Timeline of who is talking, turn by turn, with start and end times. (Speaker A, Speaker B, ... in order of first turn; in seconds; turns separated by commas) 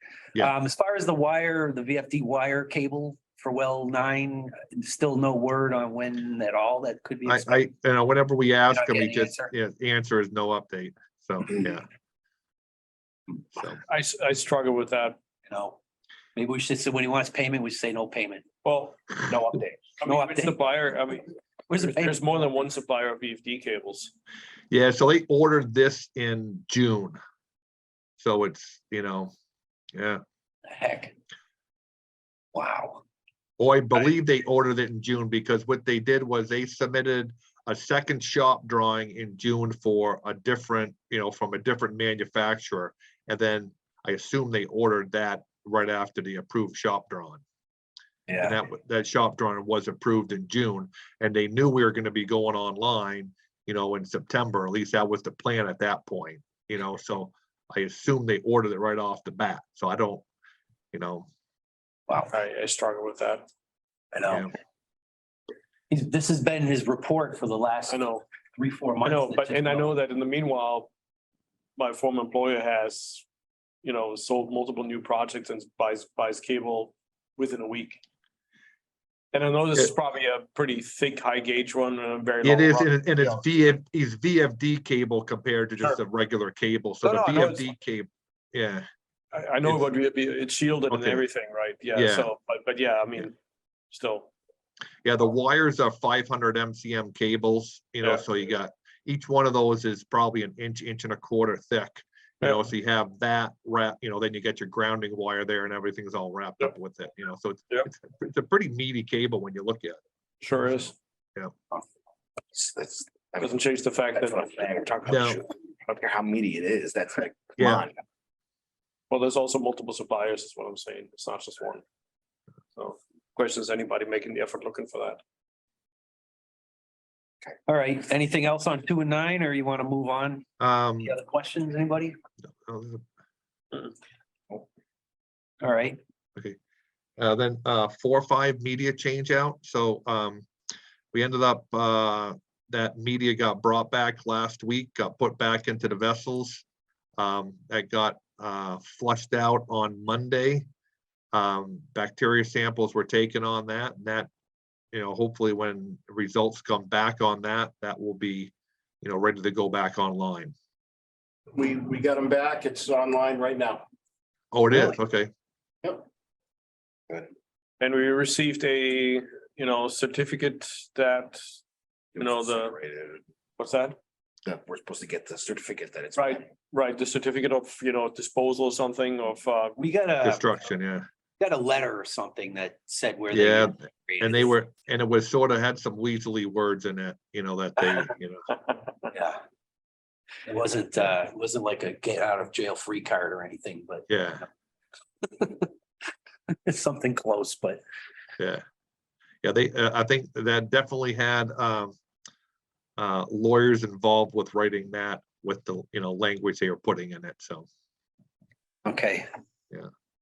Speaker A: 0.3-7.7, Speaker B: 7.2-11.9, Speaker A: 8.7-9.5, Speaker C: 13.8-15.2, Speaker A: 15.5-15.8, Speaker A: 16.4-18.4, Speaker C: 18.6-19.2, Speaker D: 19.2-19.9, Speaker C: 20.0-24.1, Speaker A: 20.0-20.7, Speaker A: 21.7-22.2, Speaker B: 24.7-27.2, Speaker B: 28.2-29.3, Speaker B: 29.9-30.2, Speaker A: 30.7-31.1, Speaker A: 32.5-33.0, Speaker B: 33.6-47.4, Speaker A: 48.3-48.6, Speaker B: 48.4-60.2, Speaker B: 60.9-61.3, Speaker A: 62.1-62.3, Speaker C: 62.3-63.5, Speaker A: 64.1-64.5, Speaker B: 64.3-64.5, Speaker A: 65.9-70.0, Speaker C: 67.9-68.2, Speaker C: 69.0-70.9, Speaker C: 71.8-73.2, Speaker C: 73.8-78.0, Speaker C: 79.3-83.4, Speaker B: 82.4-88.8, Speaker C: 87.0-87.7, Speaker C: 89.3-93.3, Speaker B: 90.9-91.2, Speaker B: 91.9-92.3, Speaker C: 93.9-94.3, Speaker B: 95.0-110.0, Speaker C: 110.4-110.9, Speaker D: 112.5-118.0, Speaker C: 113.4-114.7, Speaker B: 115.1-115.4, Speaker B: 117.6-117.9, Speaker C: 119.1-121.8, Speaker C: 122.8-125.2, Speaker A: 127.7-130.5, Speaker B: 130.6-131.1, Speaker A: 131.0-132.2, Speaker B: 132.7-133.0, Speaker A: 135.6-136.0, Speaker B: 137.2-140.5, Speaker B: 141.1-146.6, Speaker B: 147.2-150.7, Speaker B: 151.3-154.3, Speaker B: 154.9-160.5, Speaker E: 161.6-163.8, Speaker B: 164.5-165.3, Speaker C: 167.8-171.4, Speaker D: 172.1-173.2, Speaker C: 172.2-172.8, Speaker C: 173.6-174.0, Speaker D: 174.4-176.4, Speaker C: 176.1-179.8, Speaker A: 179.8-180.5, Speaker B: 180.2-181.1, Speaker A: 181.4-184.5, Speaker B: 183.3-188.4, Speaker A: 189.1-189.4, Speaker A: 190.5-194.1, Speaker B: 194.1-194.4, Speaker A: 195.2-195.7, Speaker A: 196.6-197.8, Speaker B: 199.4-201.9, Speaker B: 203.0-207.7, Speaker A: 208.8-209.3